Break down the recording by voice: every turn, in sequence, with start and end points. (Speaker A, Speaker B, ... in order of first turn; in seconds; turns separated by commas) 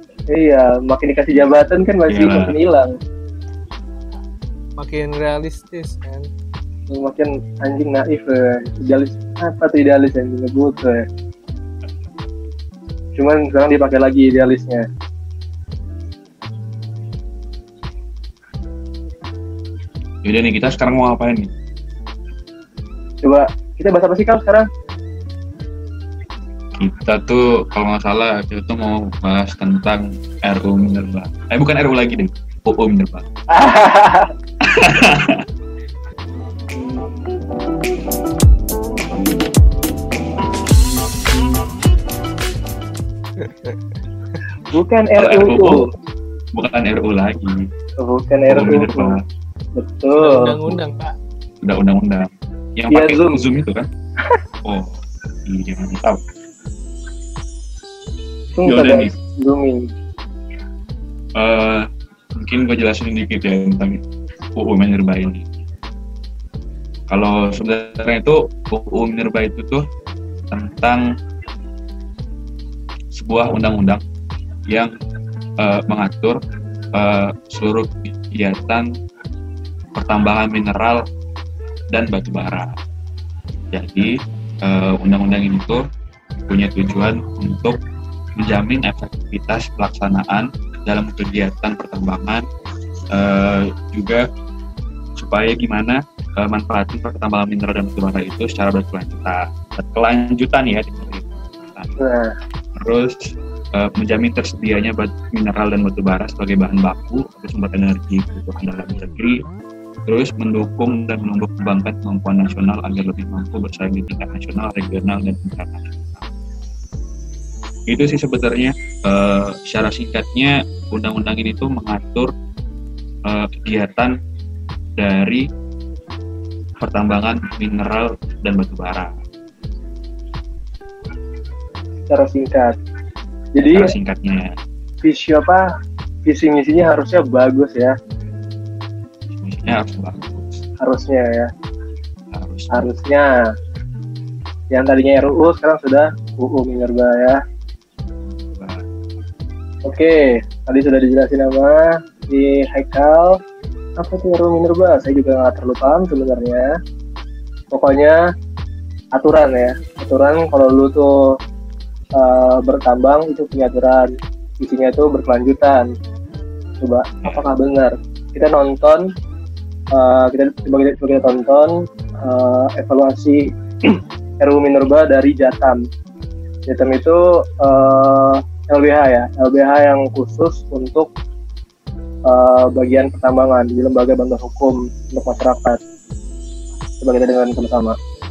Speaker A: 0.3-3.0, Speaker B: 2.1-2.5, Speaker C: 4.8-6.3, Speaker A: 6.9-11.1, Speaker A: 13.2-14.9, Speaker B: 20.2-21.5, Speaker A: 23.2-24.7, Speaker B: 26.8-33.2, Speaker A: 33.5-34.3, Speaker B: 34.6-35.4, Speaker A: 44.7-45.9, Speaker B: 45.1-45.9, Speaker B: 46.5-47.7, Speaker A: 48.0-49.2, Speaker B: 48.5-49.2, Speaker A: 49.7-50.7, Speaker C: 50.2-51.1, Speaker B: 51.6-53.9, Speaker A: 52.9-53.4, Speaker B: 54.6-56.2, Speaker A: 58.6-59.9, Speaker B: 58.6-59.1, Speaker B: 61.4-64.0, Speaker B: 64.5-65.4, Speaker B: 67.1-69.8, Speaker B: 70.5-71.0, Speaker B: 73.1-74.0, Speaker B: 75.6-76.4, Speaker B: 76.9-78.9, Speaker B: 79.9-81.0, Speaker B: 81.9-82.8, Speaker B: 83.7-85.8, Speaker B: 86.5-87.8, Speaker B: 88.4-92.4, Speaker B: 93.1-94.2, Speaker B: 95.2-101.9, Speaker A: 102.0-102.3, Speaker B: 102.8-109.4, Speaker B: 110.1-115.9, Speaker B: 117.9-122.3, Speaker B: 123.3-124.2, Speaker B: 125.0-125.4, Speaker B: 126.8-129.1, Speaker A: 132.1-132.8, Speaker A: 133.5-133.9, Speaker B: 133.6-134.6, Speaker A: 135.0-135.7, Speaker A: 136.2-138.0, Speaker B: 139.3-140.6, Speaker A: 140.8-141.5, Speaker B: 142.3-142.9, Speaker A: 142.7-143.5, Speaker A: 144.7-147.4, Speaker B: 148.3-148.8, Speaker A: 149.8-153.4, Speaker A: 154.0-156.7, Speaker A: 157.7-158.2, Speaker A: 159.1-161.3, Speaker A: 162.2-165.9, Speaker A: 166.8-169.1, Speaker A: 169.9-175.8, Speaker A: 176.7-181.1, Speaker A: 182.3-185.8, Speaker A: 187.0-188.0